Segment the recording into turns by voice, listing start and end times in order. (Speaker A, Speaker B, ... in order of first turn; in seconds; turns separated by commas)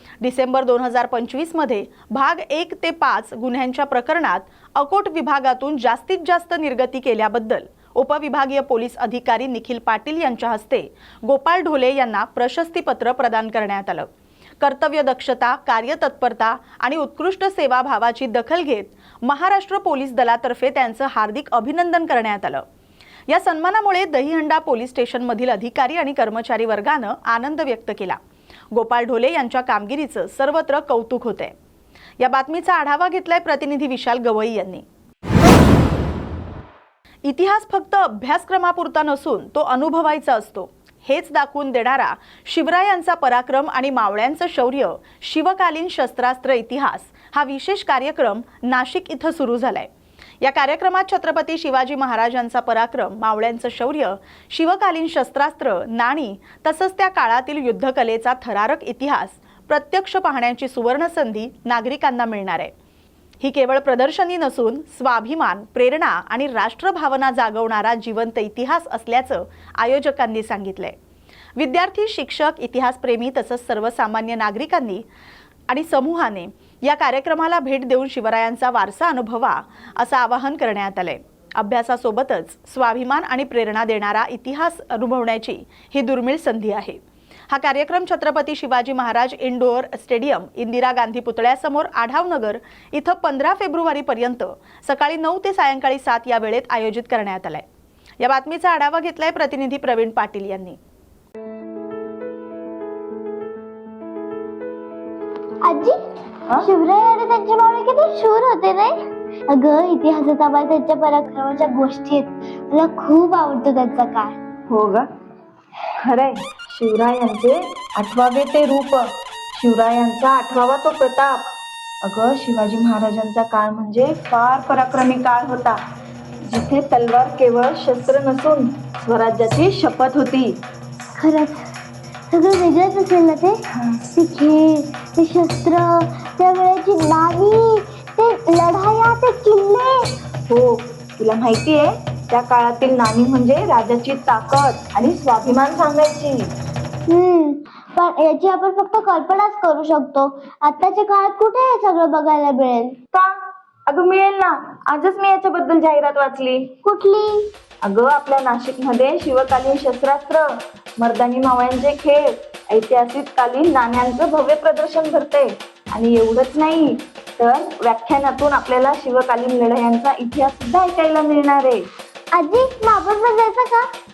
Speaker A: 0.2-14.1, Speaker A: 14.6-22.6, Speaker A: 23.3-28.2, Speaker A: 28.7-31.6, Speaker A: 32.2-34.9, Speaker A: 37.2-49.9, Speaker A: 50.4-62.7, Speaker A: 63.4-71.0, Speaker A: 71.6-75.0, Speaker A: 75.7-97.7, Speaker A: 98.2-100.8, Speaker B: 105.6-106.0, Speaker B: 106.6-108.9, Speaker B: 109.5-114.4, Speaker C: 114.7-115.1, Speaker C: 116.0-121.5, Speaker C: 122.0-125.8, Speaker C: 126.4-130.6, Speaker B: 131.2-131.7, Speaker B: 132.3-133.6, Speaker B: 134.2-140.1, Speaker C: 140.5-146.5, Speaker B: 147.1-153.0, Speaker C: 153.1-156.8, Speaker B: 156.8-157.5, Speaker C: 157.8-171.9, Speaker B: 172.3-173.9